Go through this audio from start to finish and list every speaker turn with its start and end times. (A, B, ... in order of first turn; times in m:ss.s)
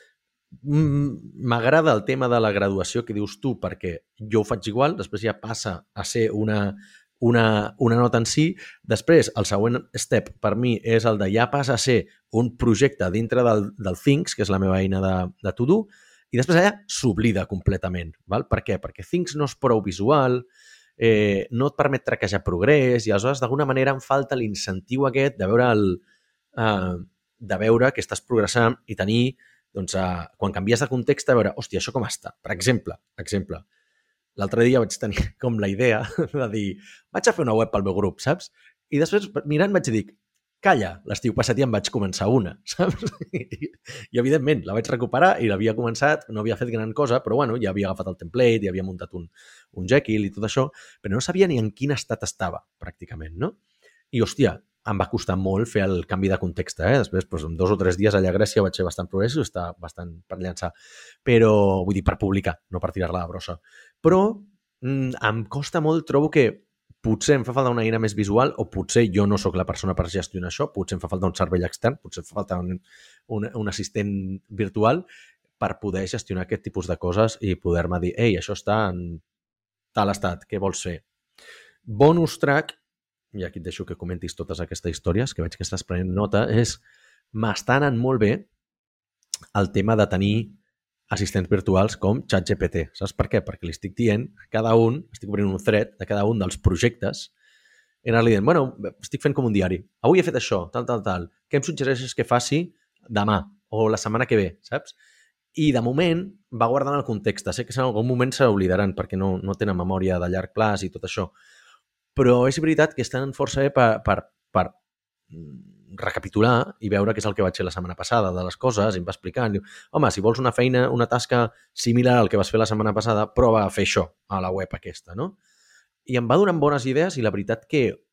0:00.6-0:20.5 A
0:21.0-0:26.0 A
0:26.6-0:33.6 A
0:34.4-0:53.6 A
0:54.1-1:00.7 A
1:01.2-1:15.0 A
1:15.6-1:19.2 A
1:19.9-1:21.0 A
1:21.9-1:22.8 A
1:23.3-1:26.8 A
1:27.3-1:28.5 A
1:29.6-1:30.6 A
1:31.1-1:37.3 A
1:38.0-1:45.0 A
1:45.6-1:51.3 A
1:52.2-1:54.8 A
1:55.3-2:05.4 A
2:06.1-2:08.0 A